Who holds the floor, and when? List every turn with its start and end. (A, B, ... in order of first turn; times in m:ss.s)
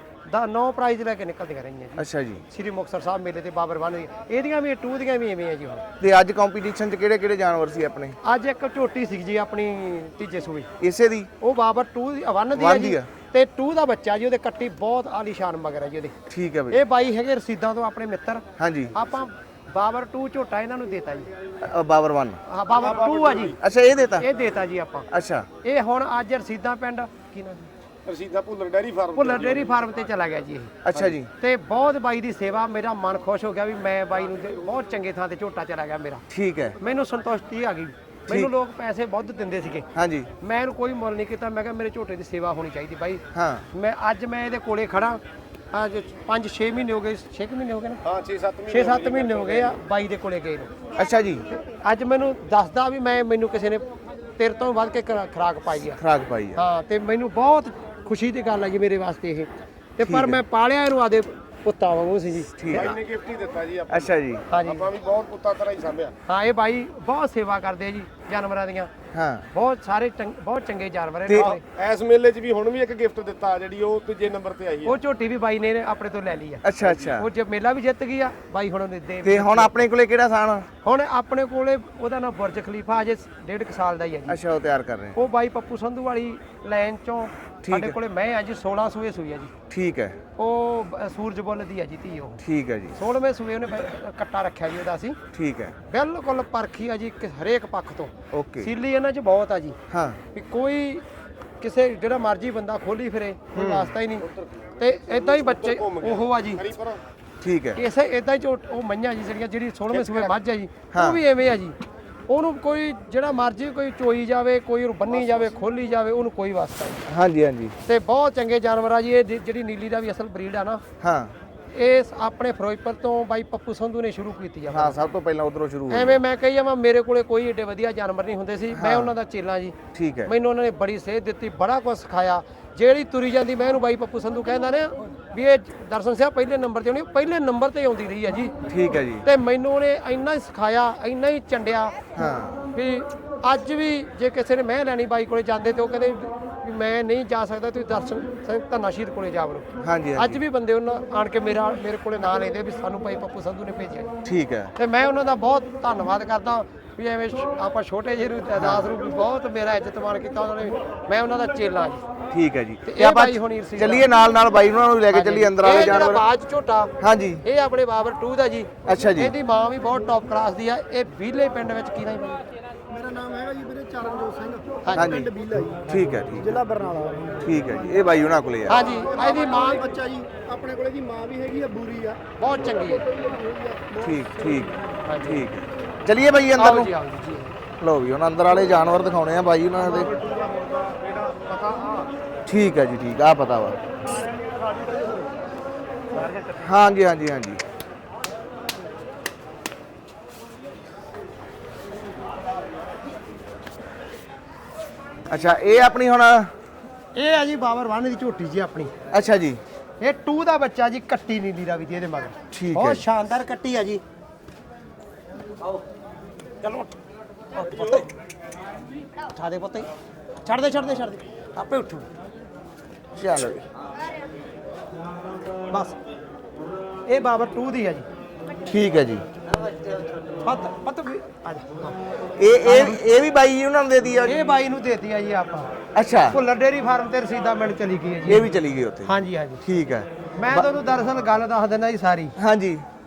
0:00.3-0:05.9 A
0:02.0-0:02.4 B
0:06.0-0:08.2 B
0:08.2-0:10.7 A
0:10.8-0:11.3 B
0:11.4-0:16.2 A
0:12.5-0:13.1 B
0:16.3-0:16.8 B
0:16.7-0:21.3 A
0:18.6-0:18.9 B
0:21.6-0:22.4 B
0:22.5-0:23.6 A
0:22.8-0:23.6 C
0:23.5-0:24.3 B
0:24.2-0:25.1 A
0:25.1-0:25.5 B
0:25.6-0:27.7 A
0:28.1-0:29.7 C
0:29.2-0:30.7 A
0:30.8-0:31.3 B
0:31.4-0:36.2 A
0:36.3-0:36.8 B
0:36.8-0:39.9 A
0:40.0-0:40.3 B
0:40.4-0:45.2 A
0:43.3-0:43.7 B
0:45.7-0:48.0 A
0:48.0-0:49.8 C
0:48.7-0:50.7 A
0:51.0-0:51.4 B
0:51.5-0:53.8 A
0:54.4-0:56.0 A
0:55.8-0:56.6 B
0:56.6-1:03.0 A
1:00.0-1:00.4 B
1:02.6-1:03.0 B
1:02.7-1:06.1 C
1:03.9-1:04.5 B
1:04.5-1:04.9 A
1:06.3-1:08.9 A
1:09.1-1:09.5 B
1:09.5-1:11.6 A
1:11.3-1:15.0 C
1:14.8-1:19.7 A
1:16.6-1:17.3 B
1:19.2-1:20.7 B
1:20.8-1:24.4 A
1:24.3-1:25.2 B
1:25.2-1:29.5 A
1:27.6-1:28.0 B
1:29.7-1:30.2 B
1:30.4-1:32.4 A
1:32.4-1:33.0 B
1:33.0-1:35.2 A
1:35.3-1:35.8 B
1:35.9-1:39.8 A
1:38.3-1:38.7 B
1:39.9-1:40.2 B
1:40.3-1:41.0 A
1:41.6-1:44.3 A
1:43.5-1:43.9 B
1:44.2-1:44.5 C
1:44.8-1:46.7 A
1:45.1-1:47.0 C
1:47.4-1:47.8 B
1:47.8-1:51.8 A
1:50.0-1:50.3 C
1:50.9-1:51.2 B
1:52.3-1:57.0 A
1:57.1-1:57.8 B
1:57.8-2:00.8 A
2:01.0-2:01.4 B
2:01.7-2:05.0 A
2:04.7-2:06.2 B
2:05.9-2:18.5 A
2:08.7-2:09.1 B
2:09.9-2:10.3 B
2:18.7-2:19.3 B
2:19.2-2:22.0 A
2:22.1-2:22.6 B
2:22.7-2:34.1 A
2:29.8-2:30.4 B
2:34.2-2:34.7 B
2:34.8-2:42.0 A
2:38.6-2:38.9 B
2:42.3-2:46.2 B
2:42.9-2:44.1 A
2:45.1-2:52.4 A
2:47.0-2:47.4 B
2:48.9-2:49.3 B
2:52.9-2:57.4 D
2:54.8-2:55.3 A
2:55.0-2:55.3 B
2:55.9-2:56.6 B
2:57.4-2:58.9 B
2:58.7-2:59.9 A
2:59.0-3:02.2 D
3:02.4-3:03.0 A
3:03.1-3:04.6 D
3:04.0-3:06.9 B
3:05.0-3:05.5 A
3:06.6-3:07.6 A
3:07.8-3:10.1 B
3:09.8-3:12.1 C
3:12.5-3:13.8 B
3:16.5-3:17.6 B
3:25.3-3:26.5 B
3:27.2-3:28.9 A
3:29.1-3:29.6 B
3:30.0-3:34.0 A
3:32.5-3:33.0 B
3:36.6-3:37.0 A
3:37.5-3:38.1 A
3:39.3-3:39.9 A
3:40.4-3:42.1 A
3:43.2-3:43.6 B
3:45.7-3:46.0 A
3:47.1-3:48.1 A
3:48.7-3:49.2 B
3:50.4-3:52.0 A
3:52.4-3:54.4 B
3:52.6-3:53.0 A
3:54.2-3:55.7 A
3:56.0-3:56.4 B
3:56.3-3:58.5 A
3:58.3-4:00.6 B
3:59.0-3:59.6 A
4:00.4-4:02.4 A
4:02.4-4:02.8 B